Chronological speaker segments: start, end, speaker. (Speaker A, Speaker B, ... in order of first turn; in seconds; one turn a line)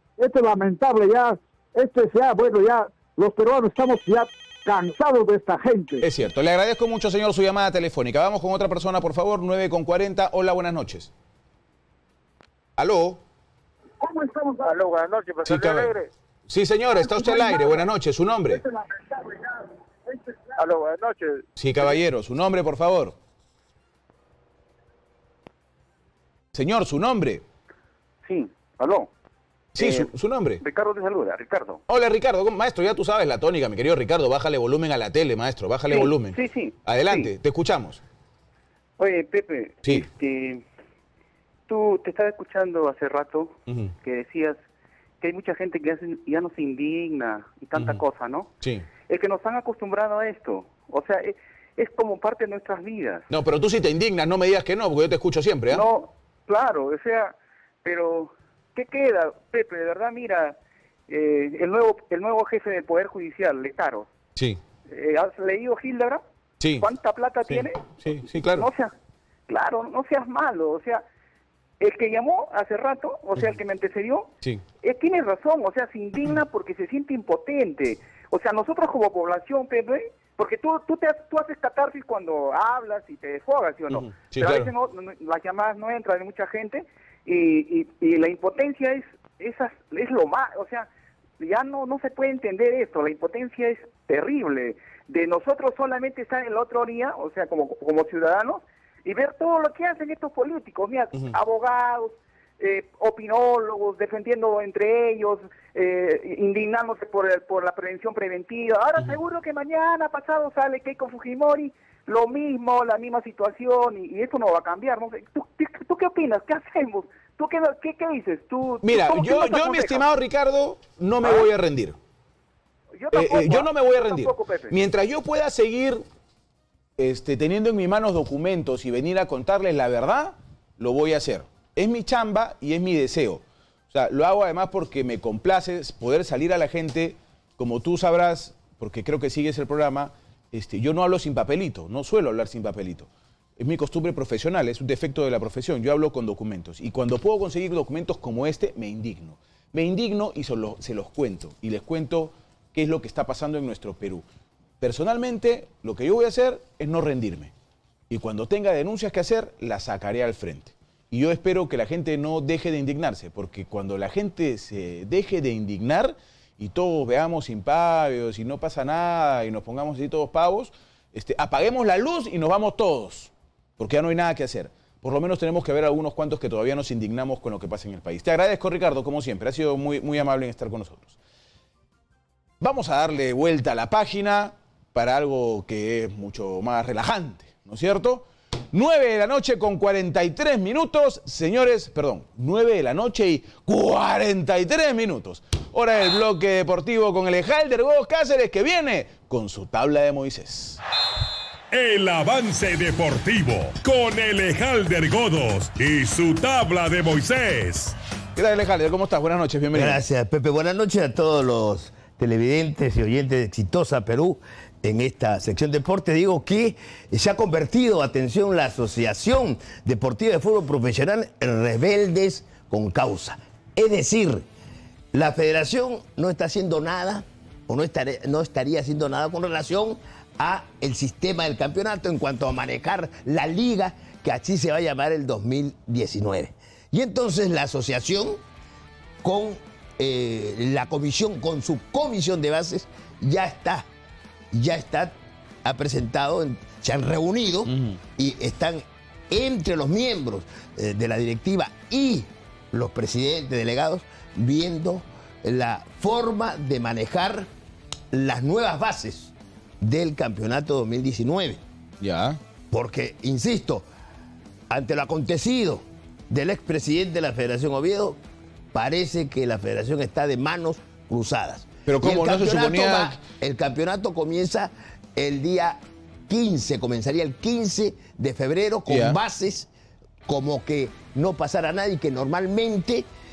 Speaker A: 0.2-6.0
Speaker B: 6.0-11.1
Speaker B: 12.8-13.2
Speaker A: 14.0-14.7
Speaker C: 14.7-16.1
Speaker B: 15.4-15.9
Speaker B: 16.5-18.6
Speaker C: 20.6-21.4
Speaker B: 21.6-23.2
Speaker B: 26.5-27.4
Speaker C: 28.2-29.1
Speaker B: 29.8-30.6
Speaker C: 29.8-30.1
Speaker C: 30.6-31.8
Speaker B: 31.9-38.0
Speaker C: 35.9-37.3
Speaker C: 39.0-40.6
Speaker C: 41.7-44.6
Speaker B: 43.7-43.9
Speaker C: 45.2-48.5
Speaker B: 47.8-48.0
Speaker B: 48.6-48.9
Speaker C: 49.1-53.3
Speaker B: 53.3-55.9
Speaker C: 55.7-60.6
Speaker C: 61.1-64.1
Speaker C: 64.9-66.2
Speaker B: 66.6-66.9
Speaker C: 66.8-68.9
Speaker B: 67.5-68.7
Speaker C: 69.5-71.0
Speaker C: 71.8-74.3
Speaker C: 74.8-120.0
Speaker B: 83.9-84.7
Speaker B: 118.8-122.0
Speaker C: 122.9-124.8
Speaker B: 123.1-126.0
Speaker B: 127.0-154.2
Speaker B: 154.8-157.5
Speaker B: 158.1-181.2
Speaker B: 182.6-200.8
Speaker D: 201.7-208.0
Speaker B: 208.3-210.1
Speaker E: 209.7-224.4
Speaker E: 225.1-238.4
Speaker E: 239.2-243.9
Speaker E: 244.5-245.1
Speaker E: 245.6-257.5
Speaker B: 247.7-248.0
Speaker E: 258.1-261.6
Speaker B: 262.0-262.4
Speaker E: 262.7-263.9
Speaker E: 264.7-268.2
Speaker E: 268.7-279.7
Speaker B: 271.9-273.2
Speaker B: 278.9-279.2
Speaker E: 280.3-283.1